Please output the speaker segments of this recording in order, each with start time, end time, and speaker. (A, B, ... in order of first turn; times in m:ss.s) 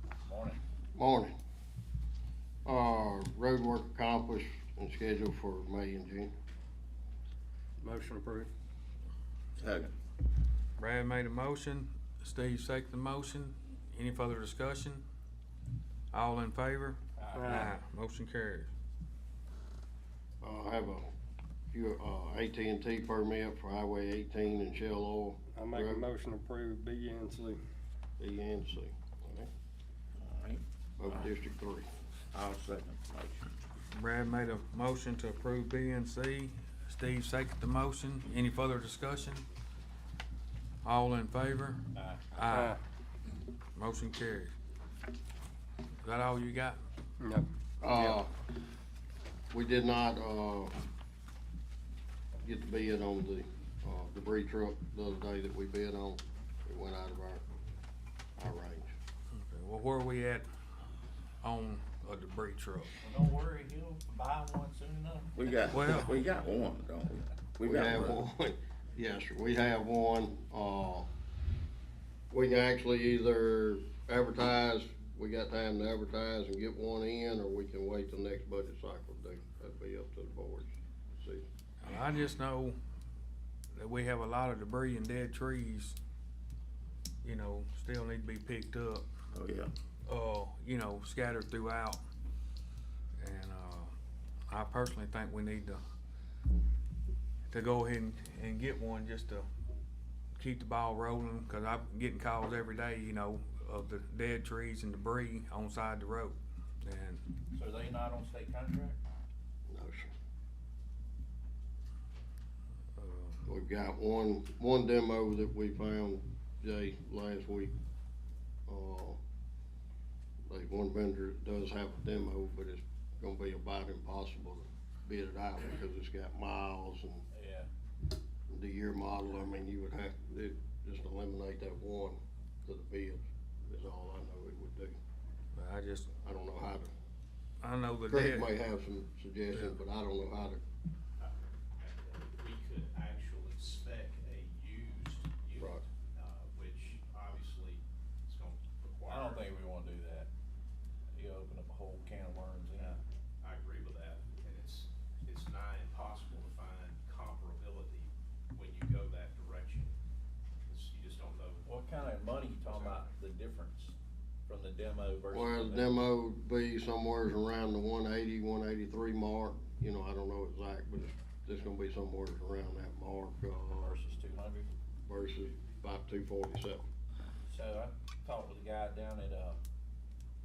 0:00.2-0:00.6 A
0:01.0-0:01.3 B
0:02.7-0:06.3 B
0:07.8-0:08.5 C
0:09.6-0:09.9 D
0:10.8-0:15.0 E
0:16.1-0:18.7 E
0:17.2-0:17.7 A
0:17.3-0:17.8 C
0:20.4-0:21.1 B
0:21.7-0:26.0 B
0:25.6-0:27.6 C
0:28.2-0:29.5 B
0:30.2-0:31.3 D
0:31.0-0:31.9 B
0:32.3-0:33.5 D
0:33.9-0:39.4 E
0:40.8-0:41.8 E
0:42.0-0:42.4 A
0:42.3-0:42.8 E
0:42.5-0:42.8 C
0:43.8-0:44.5 E
0:46.0-0:46.8 E
0:47.2-0:48.2 C
0:47.8-0:48.3 B
0:49.5-0:50.7 B
0:52.4-0:57.4 B
0:58.4-0:58.9 B
0:59.3-1:00.4 E
1:01.4-1:02.9 E
1:03.0-1:05.4 A
1:05.4-1:08.2 D
1:05.7-1:06.1 E
1:07.6-1:11.1 B
1:12.3-1:21.4 B
1:21.8-1:22.8 E
1:23.8-1:26.0 E
1:27.2-1:29.1 E
1:29.3-1:29.7 D
1:30.1-1:32.0 E
1:33.2-1:33.9 E
1:34.5-1:35.8 E
1:37.5-1:39.5 E
1:40.4-1:47.2 E
1:47.5-1:49.0 A
1:49.7-1:50.1 B
1:53.0-1:53.4 E
1:53.5-1:57.7 B
1:58.7-1:59.2 B
2:00.5-2:07.2 B
2:07.3-2:07.7 A
2:08.5-2:15.0 B
2:15.6-2:16.1 E
2:16.2-2:16.9 B
2:17.6-2:18.5 E
2:18.1-2:20.6 B
2:21.2-2:29.5 F
2:29.1-2:30.3 A
2:31.2-2:33.0 A
2:33.4-2:39.9 F
2:40.7-2:41.7 F
2:41.6-2:44.0 A
2:42.7-2:43.0 F
2:44.5-2:46.0 A
2:45.3-2:54.0 B
2:53.8-2:54.7 A
2:55.1-2:56.8 B
2:57.5-2:59.6 A